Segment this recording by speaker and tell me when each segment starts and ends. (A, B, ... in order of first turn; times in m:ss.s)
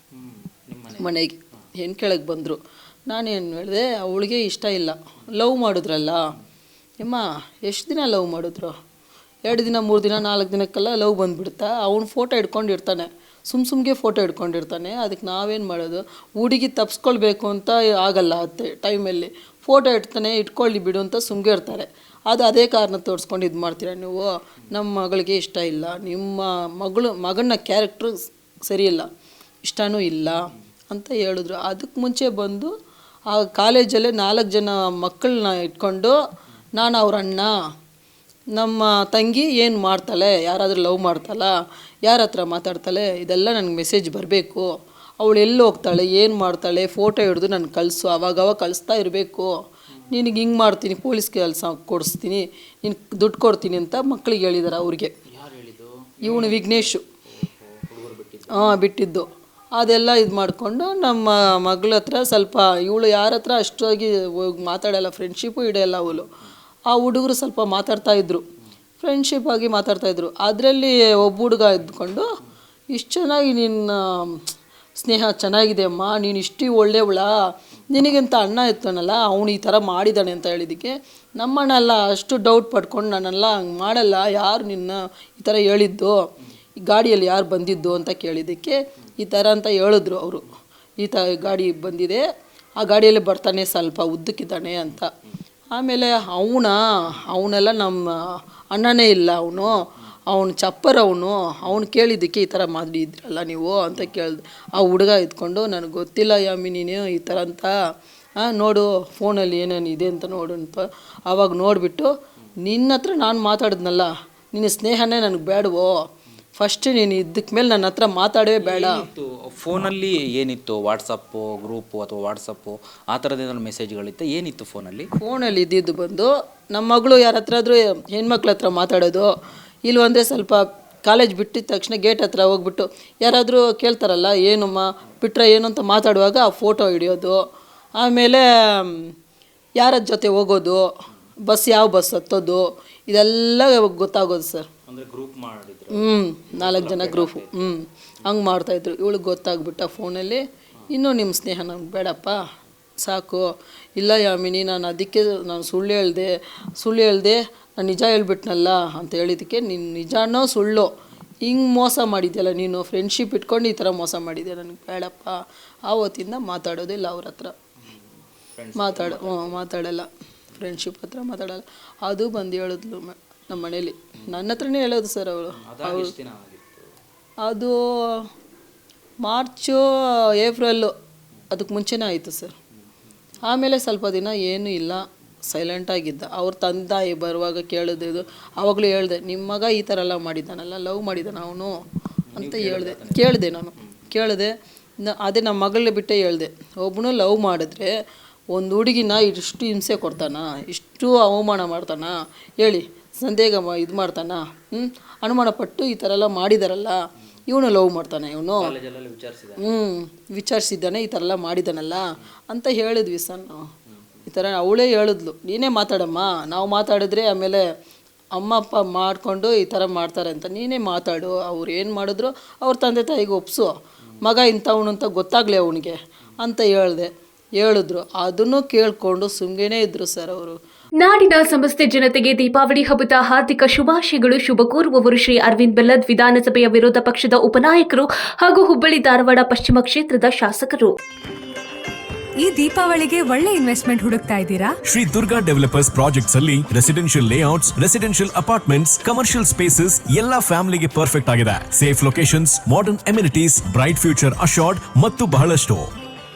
0:00.1-0:01.0 A
0:01.0-0:06.2 B
0:07.0-0:08.7 B
0:09.4-0:29.1 B
0:29.6-0:32.7 B
0:33.3-0:36.2 B
0:36.8-0:37.5 B
0:38.5-0:49.5 B
0:50.1-0:55.1 B
0:55.3-0:58.8 A
0:56.2-0:57.0 B
0:58.5-1:06.3 B
1:06.9-1:08.4 B
1:09.0-1:12.2 B
1:12.9-1:17.3 B
1:17.9-1:26.3 B
1:26.8-1:30.5 B
1:31.0-1:32.2 B
1:32.8-1:35.1 B
1:35.7-1:47.7 B
1:48.4-1:56.0 B
1:56.6-1:59.0 B
1:58.6-2:05.1 A
2:05.2-2:09.3 B
2:09.8-2:17.4 B
2:18.0-2:19.1 B
2:19.8-2:20.9 B
2:21.4-2:24.7 B
2:24.9-2:27.8 A
2:25.9-2:32.4 B
2:33.0-2:40.9 B
2:41.4-2:47.5 B
2:48.5-2:49.6 A
2:48.8-2:56.1 B
2:55.6-2:56.9 A
2:57.4-2:58.3 B
2:59.2-3:00.9 B
3:01.5-3:02.5 B
3:03.4-3:11.8 B
3:12.3-3:13.3 A
3:12.3-3:17.9 B
3:18.5-3:28.7 B
3:28.6-3:29.7 A
3:29.6-3:33.7 B
3:34.2-3:37.6 B
3:38.3-3:50.5 B
3:51.0-4:00.9 C
4:02.4-4:04.8 D
4:04.8-4:15.9 E